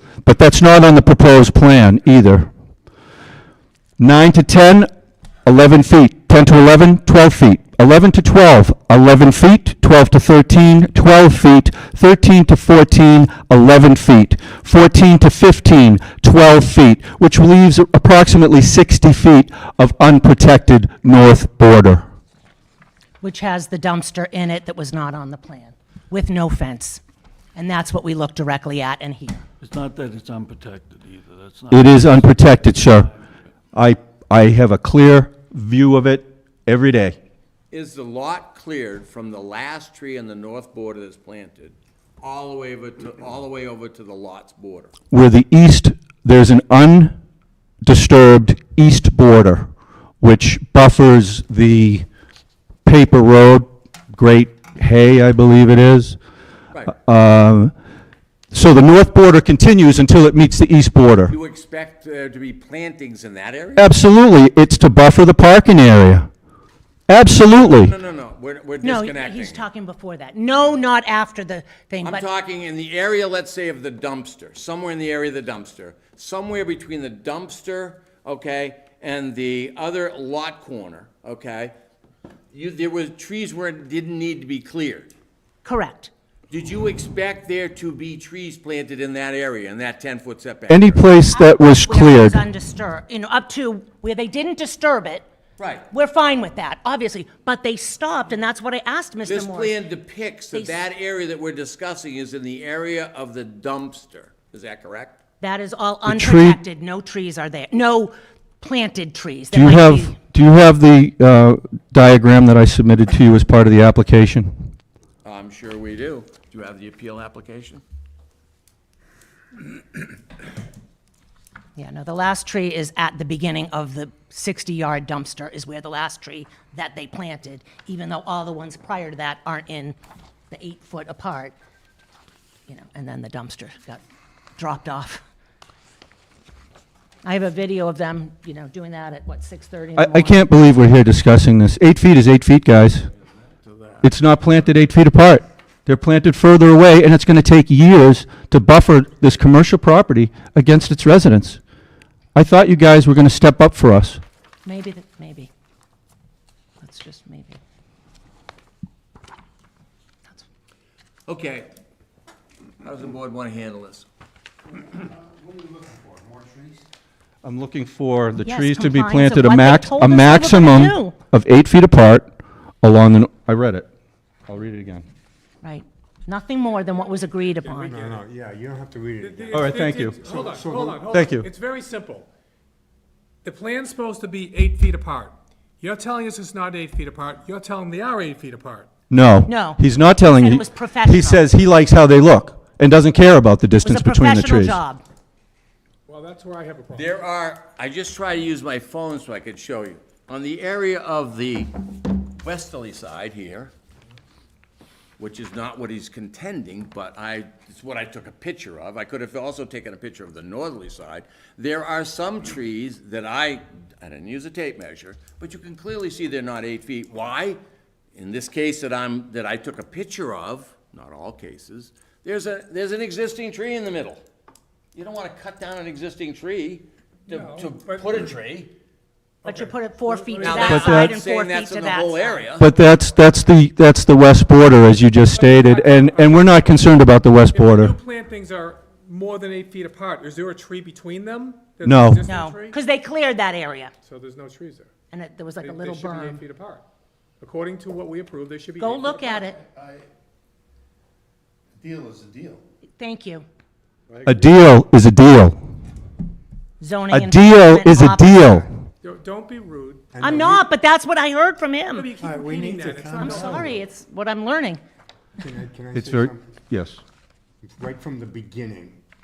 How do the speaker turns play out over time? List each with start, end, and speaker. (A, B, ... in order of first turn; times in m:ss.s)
0:00.2-0:02.5 A
0:04.0-0:04.9 A
0:05.4-0:22.0 A
0:23.2-0:27.0 B
0:27.5-0:29.4 B
0:29.6-0:33.2 C
0:31.7-0:33.1 A
0:33.7-0:37.2 A
0:37.7-0:44.9 D
0:45.1-0:47.2 A
0:47.8-0:52.0 A
0:52.8-0:56.2 A
0:57.0-0:57.7 A
0:58.5-1:01.3 A
1:01.3-1:03.9 D
1:03.8-1:06.3 A
1:07.1-1:07.9 A
1:07.6-1:09.6 D
1:08.8-1:12.2 B
1:12.0-1:21.7 D
1:22.5-1:25.1 D
1:25.6-1:26.1 B
1:26.5-1:31.2 D
1:30.7-1:32.4 A
1:31.3-1:35.2 B
1:35.6-1:35.8 D
1:35.9-1:39.8 B
1:39.2-1:45.1 D
1:40.5-1:40.8 B
1:45.4-1:50.2 B
1:46.0-1:46.6 A
1:49.5-1:54.5 A
1:55.2-1:57.8 D
2:01.8-2:09.9 B
2:10.5-2:11.5 B
2:12.7-2:14.0 B
2:14.6-2:15.2 B
2:17.2-2:20.4 B
2:20.0-2:23.1 A
2:24.0-2:31.6 A
2:32.3-2:34.2 A
2:34.6-2:35.5 B
2:36.8-2:37.6 B
2:41.3-2:41.7 D
2:42.8-2:44.0 D
2:47.4-2:52.3 A
2:48.4-2:51.1 B
2:52.8-2:53.9 A
2:54.5-2:55.1 A
2:55.6-2:58.1 B
2:57.6-2:58.2 E
2:57.8-3:01.1 F
2:59.2-3:02.2 E
2:59.5-3:00.2 A
3:01.1-3:01.5 A
3:03.4-3:08.9 E
3:09.1-3:14.8 A
3:09.5-3:11.4 B
3:13.8-3:15.0 B
3:16.1-3:17.0 E
3:16.9-3:23.7 D
3:25.2-3:37.6 D
3:38.2-3:44.2 D
3:44.9-3:48.7 D
3:47.3-3:48.0 E
3:49.4-3:52.5 B
3:49.5-3:50.4 E
3:50.4-3:52.7 D
3:50.6-3:51.1 A
3:52.6-3:58.0 A
3:55.7-3:56.4 E
3:57.8-4:02.8 E
4:01.8-4:02.2 A
4:02.2-4:03.9 B
4:04.0-4:04.9 E
4:05.1-4:06.4 B
4:05.6-4:06.8 E
4:07.4-4:09.3 E
4:08.8-4:09.6 B
4:11.8-4:12.6 D
4:13.0-4:13.4 B
4:14.2-4:15.6 A
4:16.8-4:18.6 B
4:17.1-4:18.7 A
4:19.0-4:20.0 E
4:20.1-4:20.6 F
4:20.2-4:22.1 B
4:21.9-4:23.6 E
4:22.2-4:23.8 F
4:23.1-4:24.8 B
4:25.4-4:26.6 F
4:25.9-4:27.0 A
4:27.6-4:29.0 F